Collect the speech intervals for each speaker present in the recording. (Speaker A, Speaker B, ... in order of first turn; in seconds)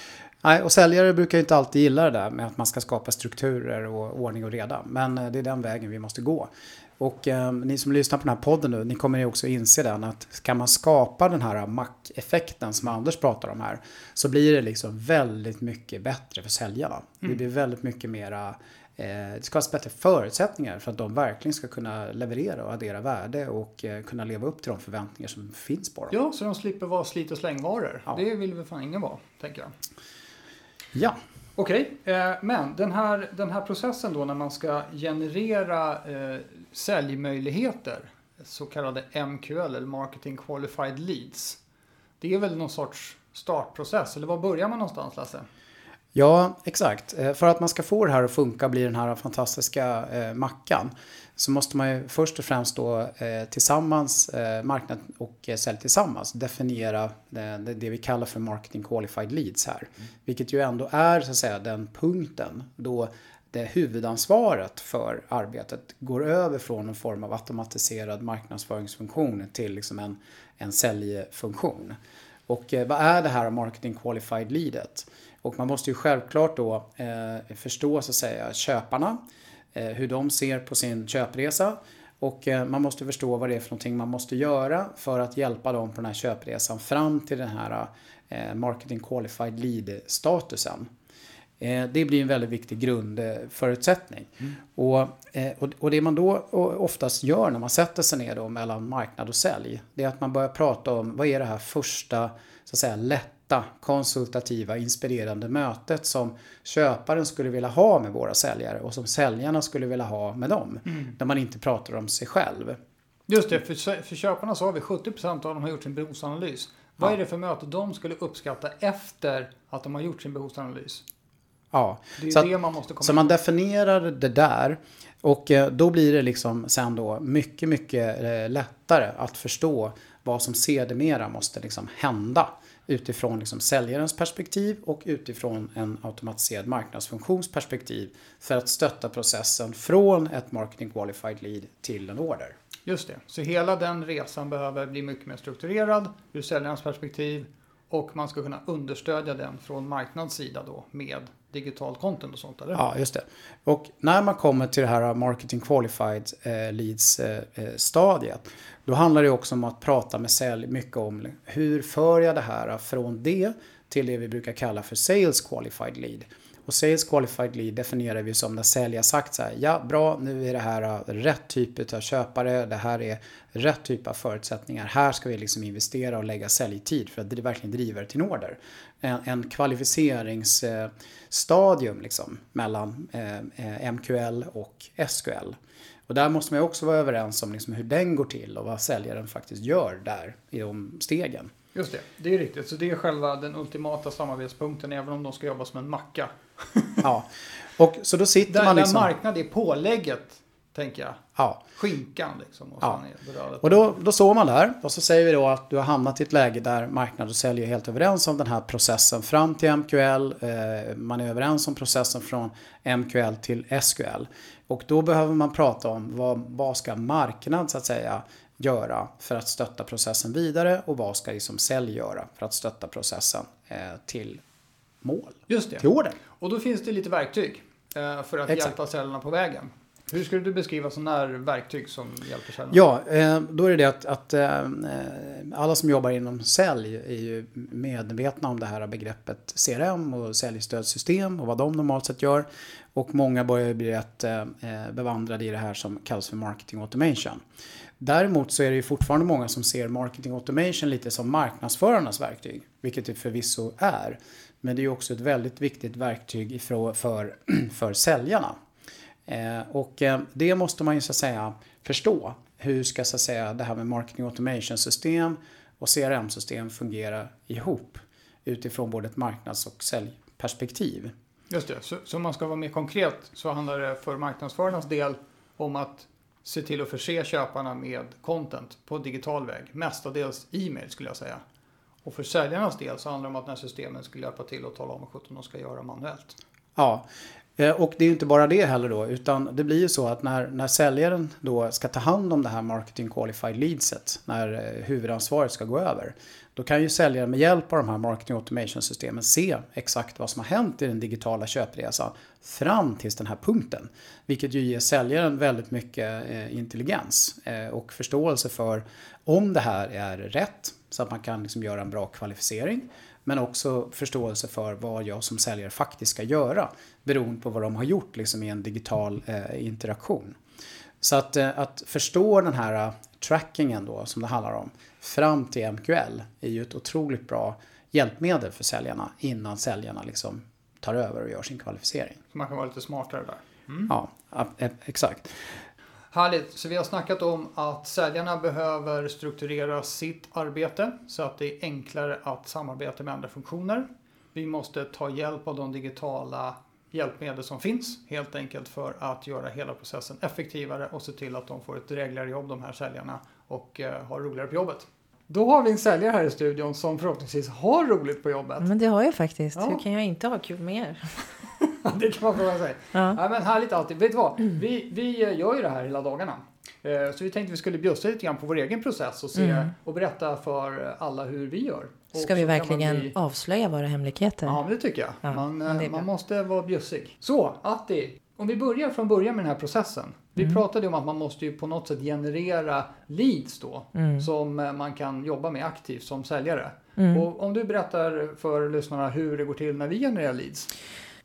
Speaker A: 0.4-26.1, 46.1-72.0, 72.5-79.2, 79.7-90.9, 91.6-112.8, 121.7-122.5, 123.0-142.6, 152.8-185.6, 186.1-191.5, 197.0-199.1, 201.4-201.6, 203.6-224.4, 225.0-226.2, 232.7-247.4, 248.0-258.6, 259.3-271.1, 286.8-287.1, 287.6-320.4, 321.0-332.2, 333.9-335.5
Speaker B: 26.1-29.7, 31.6-41.6, 42.2-45.5, 113.3-121.0, 122.2-123.4, 142.9-152.8, 191.7-197.1, 198.5-201.2, 201.8-203.9, 225.5-232.8, 271.5-281.4, 282.1-286.4, 332.3-333.9, 336.1-358.7, 361.6-373.1, 374.5-390.7
Speaker C: 358.6-361.2, 362.9-363.2, 369.4-369.7, 372.2-374.6, 375.2-376.1, 383.9-384.3, 387.0-387.3